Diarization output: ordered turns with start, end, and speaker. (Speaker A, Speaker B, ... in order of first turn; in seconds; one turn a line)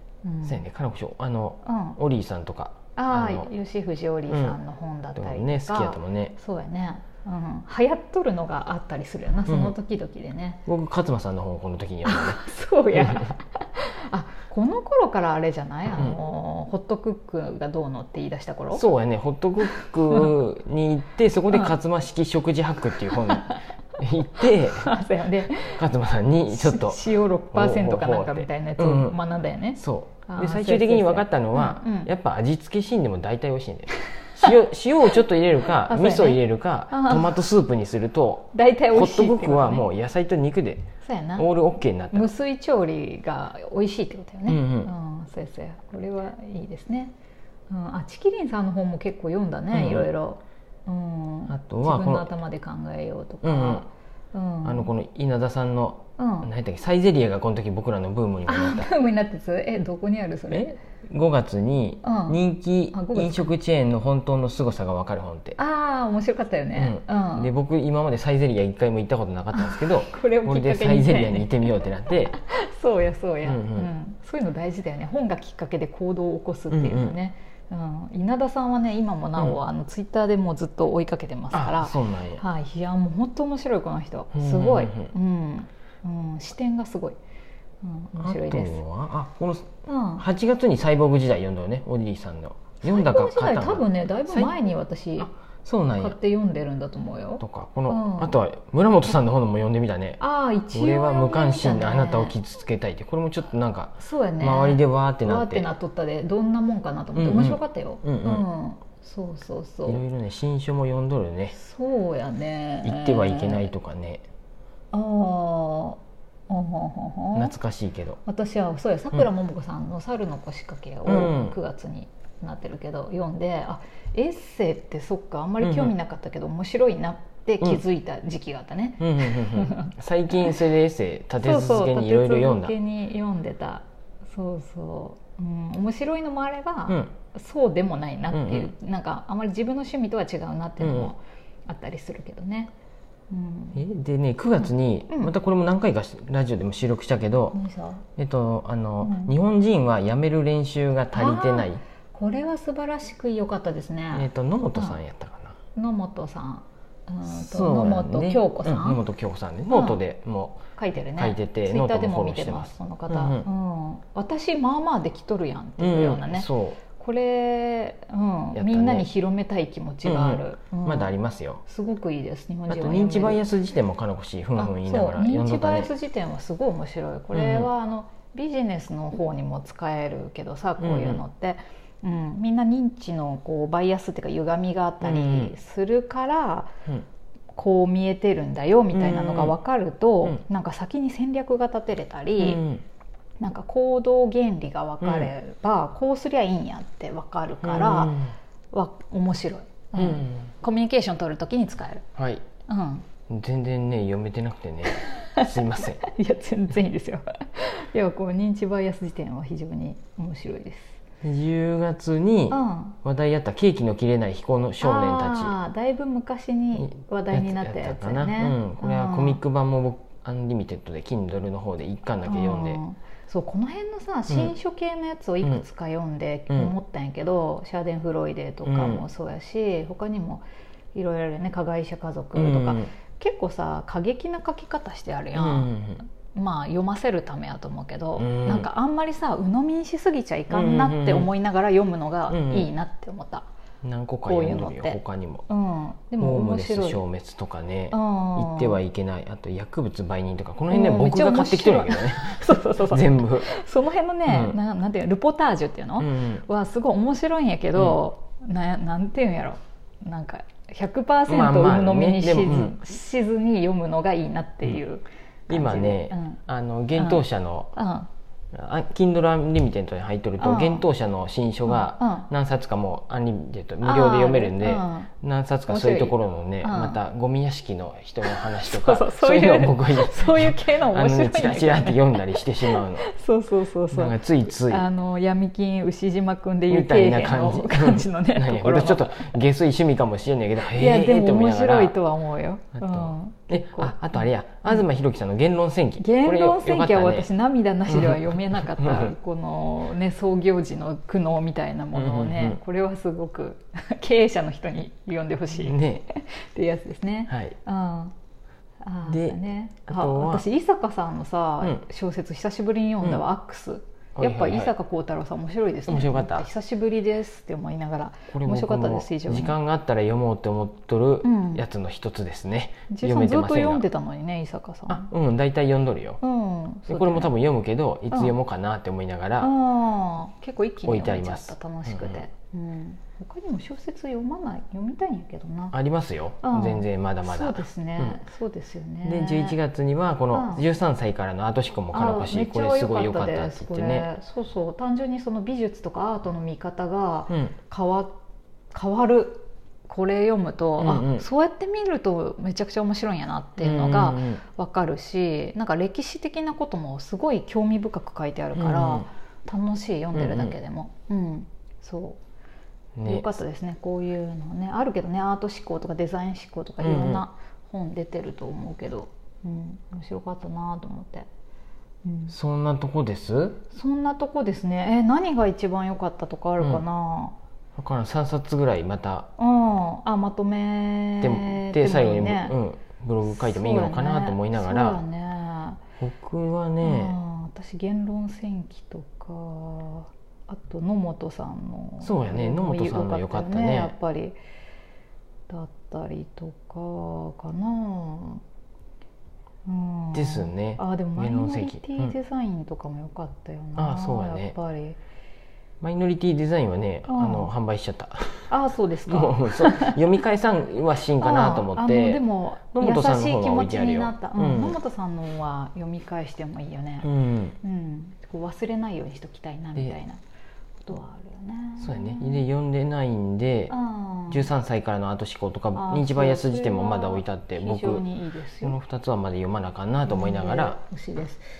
Speaker A: 0.2-0.6
Speaker B: 0.4-3.5
Speaker A: 1.6-2.0
Speaker A: 3.0-10.6
Speaker B: 4.3-4.6
Speaker B: 5.1-6.3
Speaker B: 9.5-9.8
Speaker B: 10.7-12.4
Speaker A: 12.0-18.8
Speaker B: 12.9-13.3
Speaker B: 18.7-24.9
Speaker A: 19.6-20.3
Speaker A: 23.2-23.6
Speaker A: 24.4-25.8
Speaker B: 25.6-29.2
Speaker A: 26.5-32.1
Speaker B: 29.8-42.3
Speaker A: 35.7-37.3
Speaker A: 38.5-39.9
Speaker A: 41.0-41.5
Speaker A: 42.1-47.1
Speaker B: 44.5-44.9
Speaker A: 47.7-54.9
Speaker B: 49.7-50.1
Speaker B: 51.5-52.3
Speaker B: 53.4-53.9
Speaker B: 54.6-58.9
Speaker A: 56.2-56.5
Speaker A: 58.5-60.8
Speaker B: 60.5-65.6
Speaker A: 62.0-62.4
Speaker A: 62.9-63.5
Speaker A: 65.6-67.5
Speaker B: 66.8-72.3
Speaker A: 69.5-87.2
Speaker B: 73.4-73.9
Speaker B: 76.7-77.2
Speaker B: 81.5-82.4
Speaker B: 84.3-85.1
Speaker A: 87.8-88.8
Speaker B: 88.2-94.5
Speaker A: 89.8-90.2
Speaker A: 92.8-95.3
Speaker B: 95.2-96.2
Speaker A: 95.9-98.3
Speaker B: 97.4-100.2
Speaker A: 100.2-102.3
Speaker B: 100.7-105.7
Speaker A: 104.0-110.0
Speaker B: 107.1-108.4
Speaker B: 109.9-111.5
Speaker A: 111.5-113.7
Speaker B: 112.8-114.2
Speaker A: 114.9-117.5
Speaker B: 117.3-118.2
Speaker A: 118.2-130.6
Speaker B: 121.0-121.5
Speaker B: 125.6-125.9
Speaker B: 129.0-132.7
Speaker A: 131.4-142.7
Speaker B: 138.3-138.7
Speaker B: 140.8-141.1
Speaker A: 143.3-143.8
Speaker B: 143.7-147.6
Speaker A: 144.6-145.3
Speaker A: 147.5-148.0
Speaker B: 148.2-151.8
Speaker A: 149.0-149.3
Speaker A: 151.1-155.0
Speaker B: 154.1-155.6
Speaker A: 155.7-159.0
Speaker B: 157.2-160.6
Speaker A: 159.7-160.0
Speaker A: 160.8-173.4
Speaker B: 161.1-163.5
Speaker B: 165.8-166.8
Speaker B: 168.5-169.1
Speaker B: 170.0-171.6
Speaker B: 172.7-175.9
Speaker A: 174.6-186.7
Speaker B: 177.3-177.7
Speaker B: 180.8-181.2
Speaker B: 185.0-185.5
Speaker A: 187.6-192.6
Speaker B: 188.9-189.6
Speaker B: 192.4-192.8
Speaker A: 193.4-198.2
Speaker B: 195.0-195.3
Speaker B: 197.6-198.3
Speaker A: 198.7-202.1
Speaker B: 199.9-200.5
Speaker B: 202.2-202.4
Speaker A: 202.7-203.1
Speaker B: 203.3-206.1
Speaker A: 204.9-211.0
Speaker B: 211.2-215.5
Speaker A: 212.5-212.9
Speaker A: 214.8-219.4
Speaker B: 216.8-222.8
Speaker A: 222.2-235.7
Speaker B: 228.6-229.0
Speaker B: 232.3-232.9
Speaker B: 235.3-236.0
Speaker A: 236.3-243.5
Speaker B: 238.2-238.7
Speaker B: 240.5-241.3
Speaker B: 242.3-242.7
Speaker B: 243.8-245.4
Speaker A: 244.2-247.0
Speaker B: 246.2-253.5
Speaker A: 247.9-248.8
Speaker A: 250.7-266.4
Speaker B: 254.2-254.6
Speaker B: 256.0-256.4
Speaker B: 261.3-262.8
Speaker B: 265.5-267.7
Speaker A: 266.9-268.1
Speaker B: 268.5-283.1
Speaker A: 270.4-270.9
Speaker A: 271.7-272.3
Speaker A: 273.8-275.1
Speaker A: 275.7-277.0
Speaker A: 278.2-289.3
Speaker B: 283.9-284.9
Speaker B: 286.7-292.0
Speaker A: 290.6-294.8
Speaker B: 292.8-297.3
Speaker A: 296.0-308.1
Speaker B: 297.9-299.1
Speaker B: 301.9-302.6
Speaker B: 305.6-306.1
Speaker B: 307.3-307.5
Speaker A: 308.8-319.6
Speaker B: 309.1-310.4
Speaker B: 314.1-314.7
Speaker B: 315.9-316.5
Speaker B: 318.3-323.8
Speaker A: 321.2-321.6
Speaker A: 322.9-325.1
Speaker B: 324.9-326.2
Speaker A: 326.2-327.3
Speaker B: 326.9-329.5
Speaker A: 329.4-335.7
Speaker B: 330.9-332.2
Speaker B: 335.7-338.2
Speaker A: 336.4-339.6
Speaker B: 339.0-344.1
Speaker A: 340.3-340.6
Speaker A: 341.9-348.2
Speaker B: 347.3-347.5
Speaker A: 348.7-362.2
Speaker B: 350.8-351.2
Speaker B: 353.6-354.4
Speaker B: 358.5-359.1
Speaker B: 360.1-360.6
Speaker B: 362.9-363.3
Speaker A: 363.0-371.3
Speaker B: 366.8-367.2
Speaker A: 372.0-372.3
Speaker B: 372.3-373.6
Speaker A: 373.7-377.4
Speaker B: 377.8-379.3
Speaker A: 379.4-382.6
Speaker B: 381.2-385.0
Speaker A: 383.2-385.8
Speaker B: 386.0-387.1
Speaker A: 386.8-394.4
Speaker B: 392.0-393.9
Speaker A: 395.5-398.4
Speaker A: 399.6-405.0
Speaker B: 400.1-402.1
Speaker B: 403.8-404.5
Speaker B: 405.8-408.5
Speaker A: 407.1-407.5
Speaker A: 408.5-410.0
Speaker B: 409.1-414.8
Speaker A: 411.2-417.1
Speaker B: 417.0-417.6
Speaker A: 417.6-420.2
Speaker A: 420.8-422.4
Speaker B: 421.8-423.7
Speaker A: 423.7-424.5
Speaker B: 424.3-428.0
Speaker A: 425.7-428.8
Speaker B: 428.6-430.8
Speaker A: 430.1-431.4